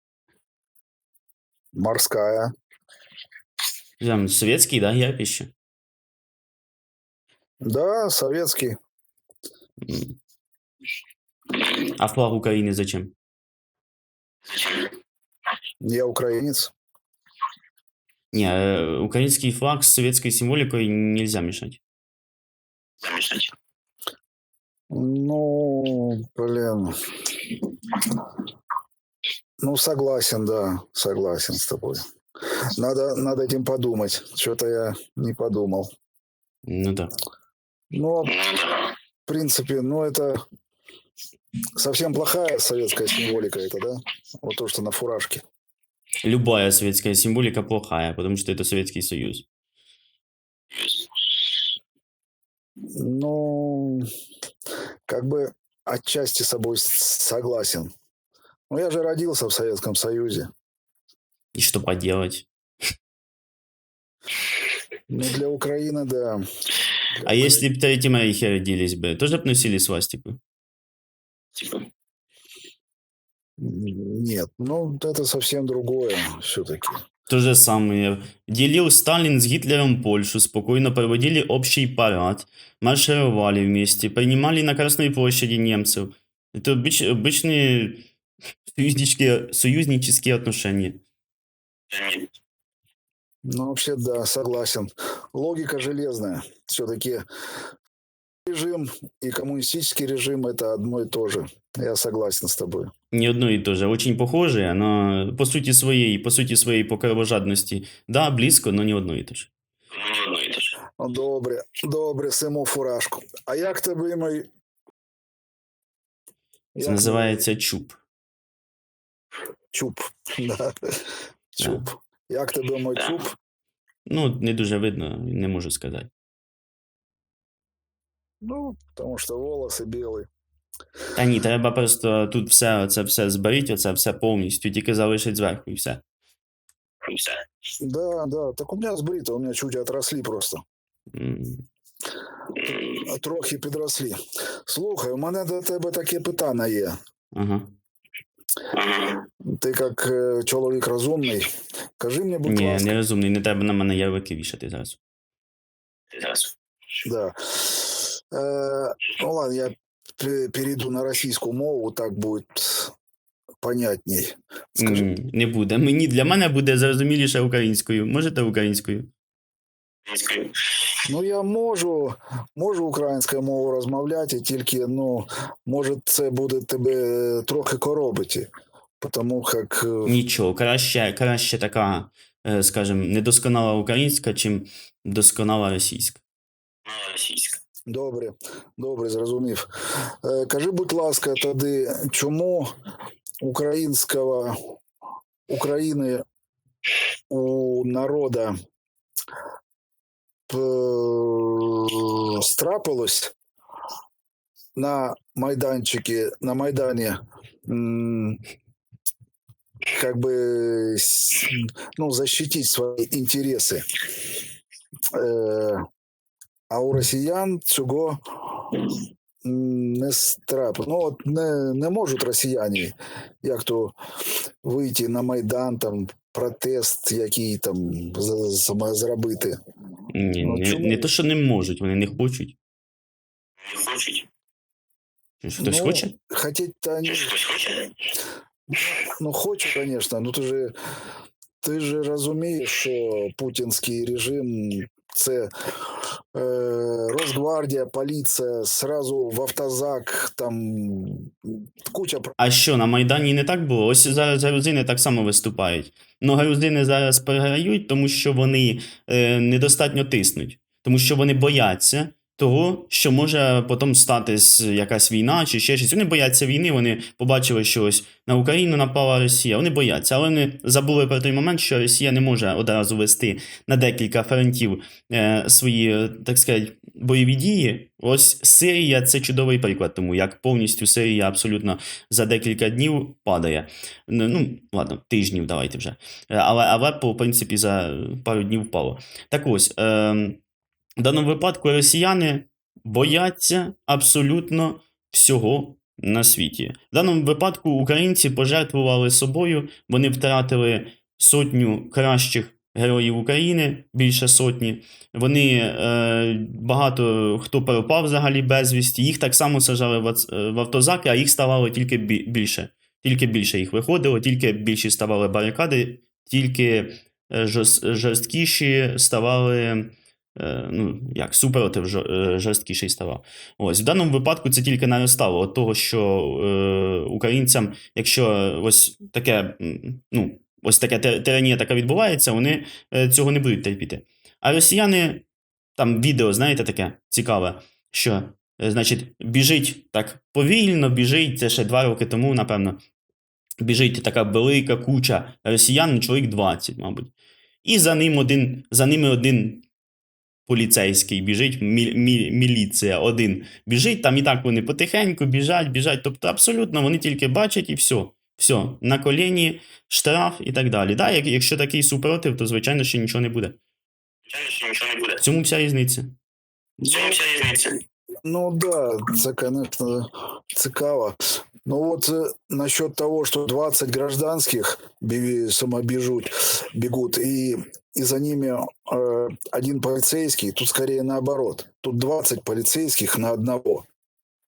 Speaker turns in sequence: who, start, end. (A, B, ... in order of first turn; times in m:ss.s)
0:01.8-0:02.5 A
0:04.0-0:05.5 B
0:07.6-0:08.8 A
0:09.8-0:10.2 B
0:11.6-0:13.1 B
0:15.8-0:16.7 A
0:18.3-0:21.8 B
0:23.1-0:23.4 C
0:24.9-0:28.1 A
0:29.6-0:32.0 A
0:32.8-0:35.9 A
0:36.6-0:37.1 B
0:37.9-0:38.5 A
0:39.2-0:40.4 A
0:41.8-0:45.4 A
0:46.2-0:49.4 B
0:53.0-0:54.1 A
0:55.1-0:57.9 A
0:58.7-1:00.5 A
1:01.5-1:02.5 B
1:05.1-1:06.4 A
1:07.2-1:07.6 A
1:07.2-1:10.4 B
1:13.6-1:17.0 A
1:17.3-1:28.0 B
1:28.7-1:31.0 B
1:31.9-1:32.2 C
1:33.5-1:37.2 A
1:38.5-1:42.9 A
1:43.1-1:50.6 B
1:51.0-1:54.5 A
1:56.7-1:57.4 A
1:56.8-1:58.0 B
1:59.7-2:03.4 A
2:04.1-2:06.1 B
2:08.4-2:10.3 A
2:11.1-2:16.0 B
2:17.8-2:20.6 A
2:21.1-2:21.6 B
2:22.6-2:24.2 A
2:24.7-2:26.9 A
2:27.3-2:27.7 B
2:29.4-2:31.5 A
2:32.0-2:33.0 A
2:32.4-2:35.0 B
2:37.0-2:42.9 A
2:43.6-2:45.1 A
2:44.8-2:49.1 B
2:50.1-2:50.4 B
2:51.0-2:58.5 A
2:59.0-3:00.1 A
3:00.0-3:06.2 B
3:06.9-3:07.5 B
3:07.9-3:12.7 A
3:13.4-3:14.6 A
3:15.5-3:16.2 A
3:17.3-3:18.5 A
3:20.5-3:23.3 A
3:24.8-3:28.4 A
3:29.9-3:33.8 A
3:35.1-3:35.8 A
3:36.7-3:38.8 A
3:39.4-3:44.0 A
3:44.6-3:49.6 A
3:50.1-3:52.6 B
3:50.4-3:51.1 A
3:53.7-3:54.2 C
3:55.4-3:56.1 B
3:55.6-3:57.4 A
3:57.3-3:57.7 C
3:58.7-4:00.7 A
4:01.6-4:05.5 A
4:06.3-4:12.4 A
4:12.4-4:50.4 B
4:51.0-5:35.2 B
5:35.8-5:42.8 B
5:43.6-5:47.1 B
5:47.6-5:49.6 B
5:50.5-6:03.6 B
6:04.3-6:05.1 C
6:05.1-6:06.1 B
6:06.8-6:07.2 A
6:06.9-6:07.7 C
6:08.2-6:23.8 A